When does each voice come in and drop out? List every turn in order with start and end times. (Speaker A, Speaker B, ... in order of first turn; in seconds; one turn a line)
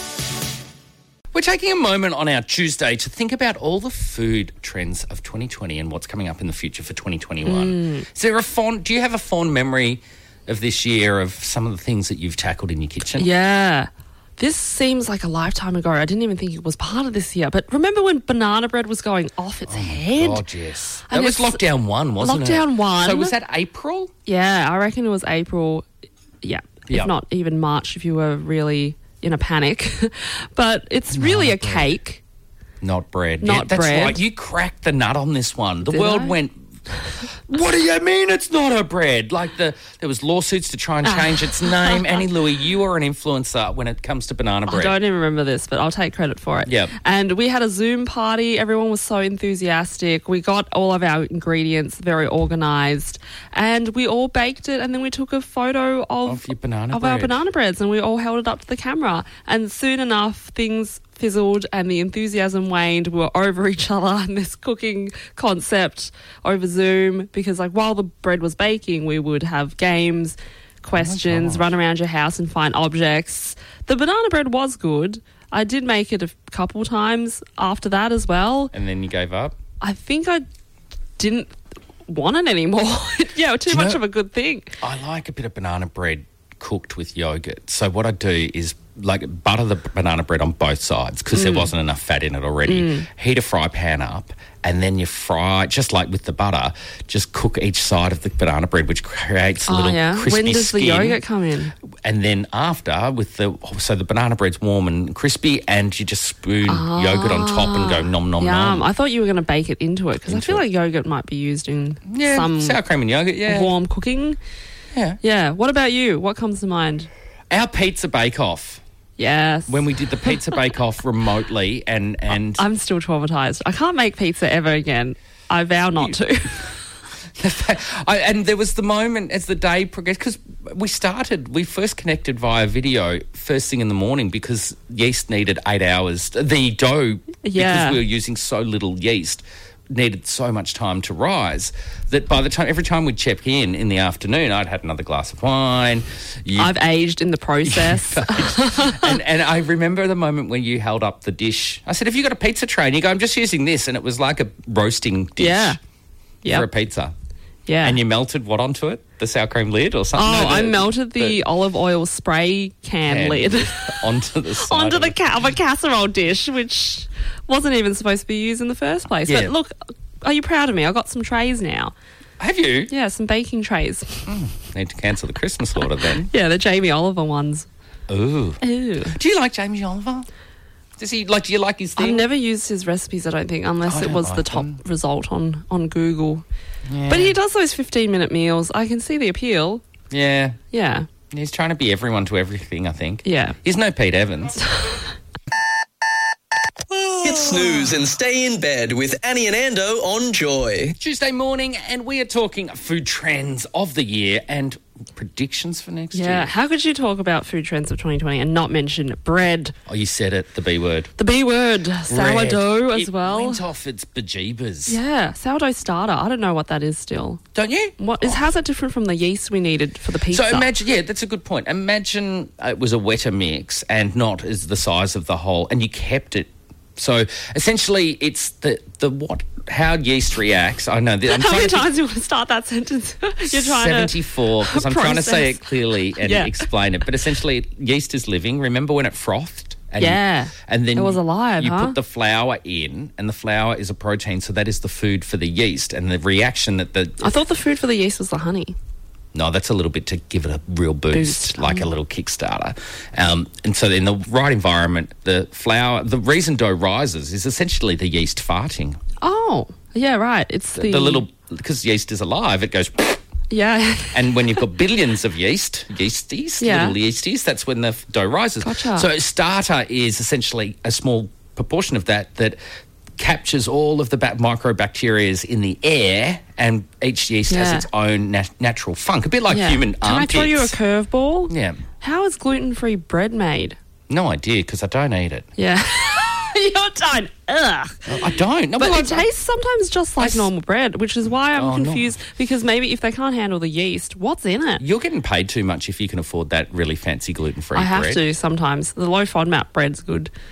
Speaker A: 1.3-13.3
Speaker B: 7.4-8.1
Speaker B: 13.2-20.4
Speaker A: 19.6-24.1
Speaker B: 21.1-21.6
Speaker B: 22.2-23.3
Speaker B: 24.2-25.8
Speaker B: 26.4-32.2
Speaker A: 26.9-27.1
Speaker A: 31.1-31.9
Speaker A: 32.8-36.6
Speaker B: 33.4-34.2
Speaker B: 35.9-36.3
Speaker A: 37.5-45.0
Speaker B: 41.0-42.2
Speaker B: 44.7-78.7
Speaker A: 46.6-46.9
Speaker A: 56.2-57.4
Speaker A: 71.0-71.7
Speaker A: 78.7-79.5
Speaker B: 79.8-80.5
Speaker B: 81.2-81.5
Speaker B: 82.1-84.8
Speaker A: 83.7-84.0
Speaker A: 84.8-101.2
Speaker B: 91.3-91.7
Speaker B: 92.7-93.1
Speaker B: 99.7-101.7
Speaker A: 102.0-108.8
Speaker B: 106.7-112.8
Speaker A: 110.3-110.6
Speaker A: 112.1-113.7
Speaker B: 113.5-114.4
Speaker A: 114.9-115.2
Speaker B: 115.2-117.1
Speaker A: 117.5-118.8
Speaker B: 119.2-120.4
Speaker A: 119.7-122.6
Speaker B: 122.3-126.7
Speaker A: 127.3-146.7
Speaker B: 137.4-138.0
Speaker B: 146.6-149.2
Speaker A: 147.6-155.8
Speaker B: 155.4-155.8
Speaker B: 156.4-156.7
Speaker A: 156.4-157.1
Speaker B: 157.7-158.0
Speaker A: 157.8-161.4
Speaker B: 160.2-164.0
Speaker A: 163.0-165.2
Speaker B: 164.5-171.9
Speaker A: 169.2-169.5
Speaker A: 172.4-172.9
Speaker B: 172.9-174.2
Speaker A: 174.3-176.3
Speaker B: 176.2-177.7
Speaker A: 178.1-180.3
Speaker B: 178.6-179.2
Speaker A: 181.0-182.2
Speaker B: 182.0-186.4
Speaker A: 183.8-184.8
Speaker A: 186.8-187.3
Speaker B: 187.1-189.8
Speaker A: 190.1-190.6
Speaker B: 190.7-191.1
Speaker A: 191.3-194.6
Speaker B: 193.2-193.6
Speaker C: 196.9-200.9
Speaker A: 201.0-206.5
Speaker B: 206.1-209.7
Speaker A: 209.8-211.1
Speaker B: 211.2-213.6
Speaker A: 212.1-215.0
Speaker B: 214.9-217.4
Speaker A: 217.5-218.4
Speaker B: 218.0-220.7
Speaker A: 220.3-231.9
Speaker B: 231.3-236.7
Speaker A: 233.4-247.3
Speaker B: 240.0-242.0
Speaker B: 247.2-248.7
Speaker A: 249.3-259.0
Speaker B: 251.1-251.8
Speaker B: 259.2-261.2
Speaker A: 260.8-263.2
Speaker B: 263.5-264.5
Speaker A: 264.1-272.6
Speaker B: 266.6-267.0
Speaker B: 268.6-269.1
Speaker A: 273.2-280.7
Speaker B: 277.5-277.9
Speaker B: 279.5-283.8
Speaker A: 281.5-281.8
Speaker A: 284.1-285.5
Speaker B: 285.6-288.1
Speaker A: 288.1-289.3
Speaker B: 288.8-294.8
Speaker A: 290.2-290.5
Speaker A: 291.5-292.2
Speaker A: 294.8-298.2
Speaker B: 297.7-300.3